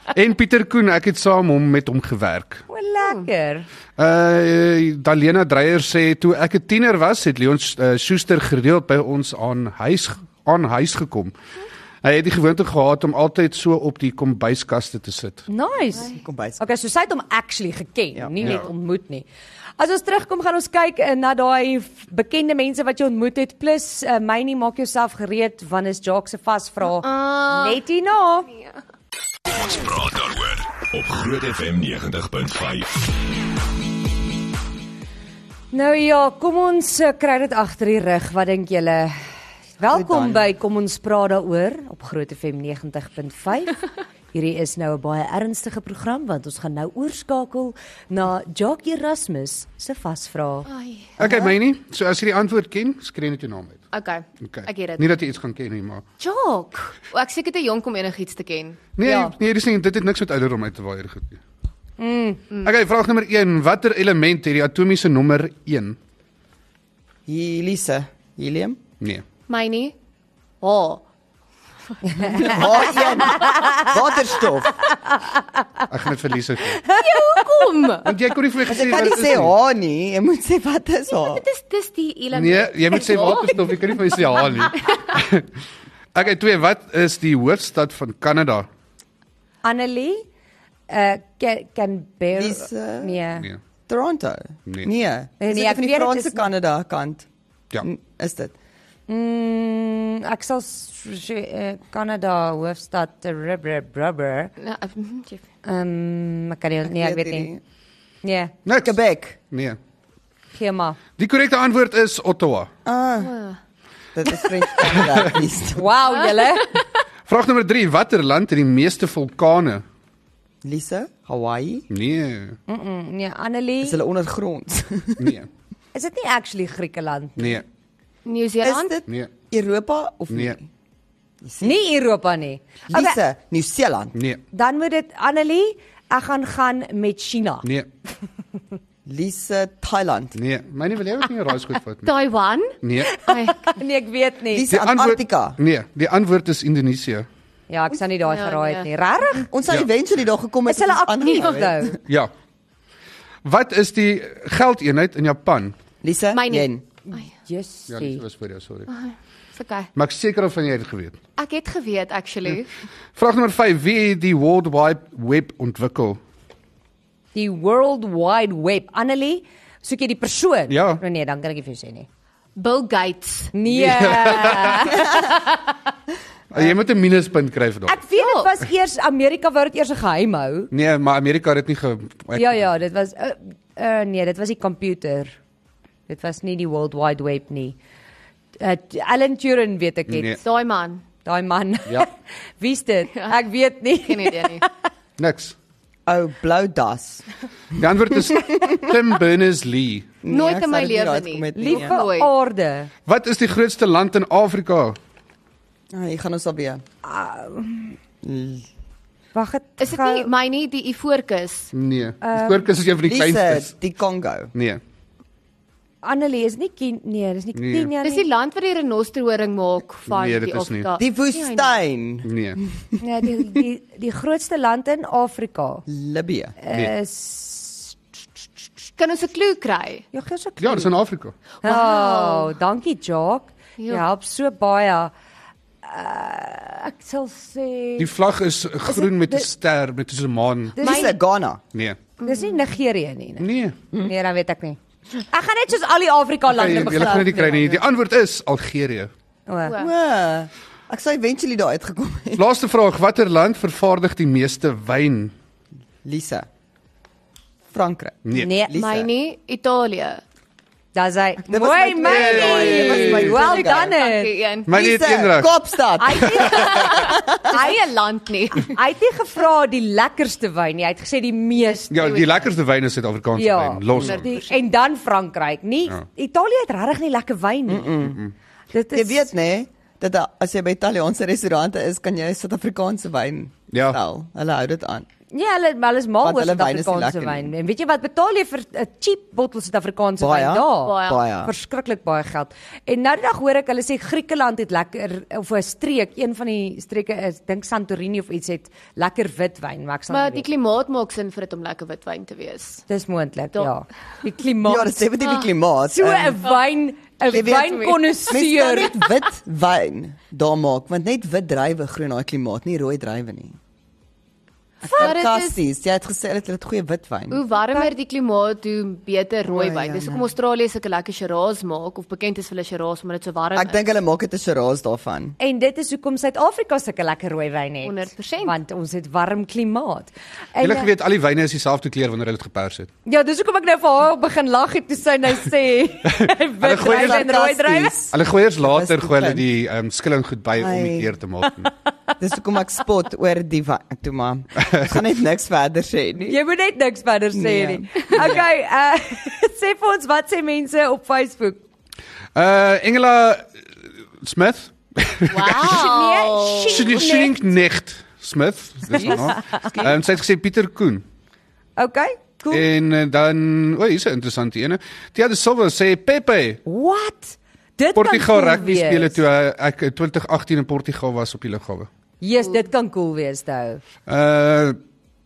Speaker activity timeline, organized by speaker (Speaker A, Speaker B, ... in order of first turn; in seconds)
Speaker A: 0.1-2.6, 4.0-11.3, 12.0-15.5, 18.4-18.7, 51.2-53.8, 54.4-56.0, 59.0-61.4, 62.6-66.0, 75.9-76.8, 78.0-79.5, 82.3-85.5, 86.1-88.7, 108.7-109.0, 109.5-109.8, 111.2-112.7, 114.9-115.3, 117.3-119.8, 121.9-122.6, 125.2-125.5, 127.4-127.6, 134.1-134.4, 140.3-142.1, 142.8-143.1, 144.7-147.3, 152.1-152.3, 153.4-155.8, 157.9-158.9, 160.0-161.2, 163.2-166.2, 170.7-171.0, 173.7-175.3, 176.5-178.0, 180.7-182.6, 190.1-190.4, 195.2-195.6, 197.8-200.2, 203.1-205.0, 211.7-213.7, 214.5-214.8, 217.6-217.9, 220.1-220.9, 222.2-222.6, 230.6-231.3, 238.0-240.8, 243.4-243.8, 246.5-249.1, 252.4-255.3, 262.0-263.3, 264.7-265.5, 271.9-274.3, 283.7-284.0, 330.6-332.9, 336.1-337.2, 338.1-341.7, 344.6-344.9, 352.4-353.6, 354.2-355.9, 356.7-361.0, 362.5-366.6, 368.0-371.9, 374.1-374.8
Speaker B: 2.7-3.7, 15.5-19.3, 19.8-28.5, 35.7-39.1, 39.8-50.7, 59.0-59.3, 62.0-62.4, 72.0-73.9, 75.1-75.8, 76.8-77.4, 89.6-90.3, 90.9-93.5, 95.4-96.5, 99.1-104.5, 105.7-107.5, 108.2-108.5, 110.5-111.0, 115.7-116.8, 122.7-124.0, 125.9-127.6, 131.6-133.2, 134.5-137.7, 143.1-144.7, 147.7-149.5, 150.7-152.0, 157.1-158.2, 167.3-172.1, 173.5-175.7, 177.9-180.7, 182.3-185.4, 186.1-187.8, 188.6-190.4, 191.2-194.7, 201.6-202.9, 207.0-208.0, 209.3-210.3, 212.2-212.7, 216.0-218.3, 223.0-225.9, 226.6-228.0, 230.1-230.9, 231.6-235.1, 235.8-238.1, 238.9-239.5, 240.8-241.2, 242.2-247.8, 249.5-249.8, 258.3-258.8, 260.9-264.3, 266.0-267.8, 268.6-272.4, 273.4-278.1, 278.7-279.3, 285.3-300.4, 302.9-305.1, 305.9-309.1, 314.8-315.1, 325.4-330.9, 333.1-338.0, 346.2-351.6, 355.6-357.4, 358.9-359.8, 361.8-362.7, 366.7-369.2, 372.2-373.8
Speaker C: 16.1-16.6, 18.1-18.5, 39.9-40.5, 51.2-51.5, 67.3-68.8, 72.3-74.8, 78.7-81.5, 92.3-93.2, 93.9-97.3, 97.8-98.5, 106.9-107.6, 108.8-109.4, 112.8-113.3, 114.2-115.9, 120.6-121.9, 123.8-125.4, 128.6-130.7, 131.4-131.8, 132.9-134.2, 139.1-140.4, 144.5-145.6, 149.5-152.0, 156.0-156.8, 196.1-198.9, 200.2-202.0, 205.9-206.8, 208.2-208.7, 213.0-214.5, 221.0-223.4, 225.9-226.6, 240.8-241.6, 246.6-247.8, 249.8-252.4, 256.0-256.5, 257.7-259.1, 261.4-264.0, 264.7-267.6, 277.7-278.2, 278.9-285.1, 286.2-287.5, 290.2-291.5, 304.6-306.4, 307.3-313.6, 314.8-317.4, 319.5-320.3, 323.6-325.4, 336.6-339.4, 340.6-341.1, 342.2-346.4, 347.3-348.5
Speaker D: 26.8-27.8, 50.7-51.2, 53.9-55.1, 56.2-58.9, 69.5-69.9, 70.6-71.0, 72.2-73.1, 76.9-78.1, 81.1-85.0, 104.6-105.5, 113.2-113.6, 116.1-116.8, 128.2-128.9, 142.0-143.7, 148.2-148.9, 151.3-151.5, 156.3-157.2, 158.9-159.9, 161.4-162.7, 172.6-173.5, 178.2-178.5, 190.4-191.0, 193.1-193.4, 194.0-194.7, 200.3-202.3, 209.8-211.7, 218.0-221.8, 229.0-230.1, 231.6-232.5, 233.8-234.0, 240.8-241.1, 242.2-242.7, 249.7-249.9, 258.7-260.2, 263.1-264.7, 266.4-268.8, 273.9-274.6, 290.8-291.2, 300.1-302.9, 307.4-308.1, 314.9-315.6, 317.3-323.8, 327.8-328.6, 355.3-356.9
Speaker E: 29.5-33.2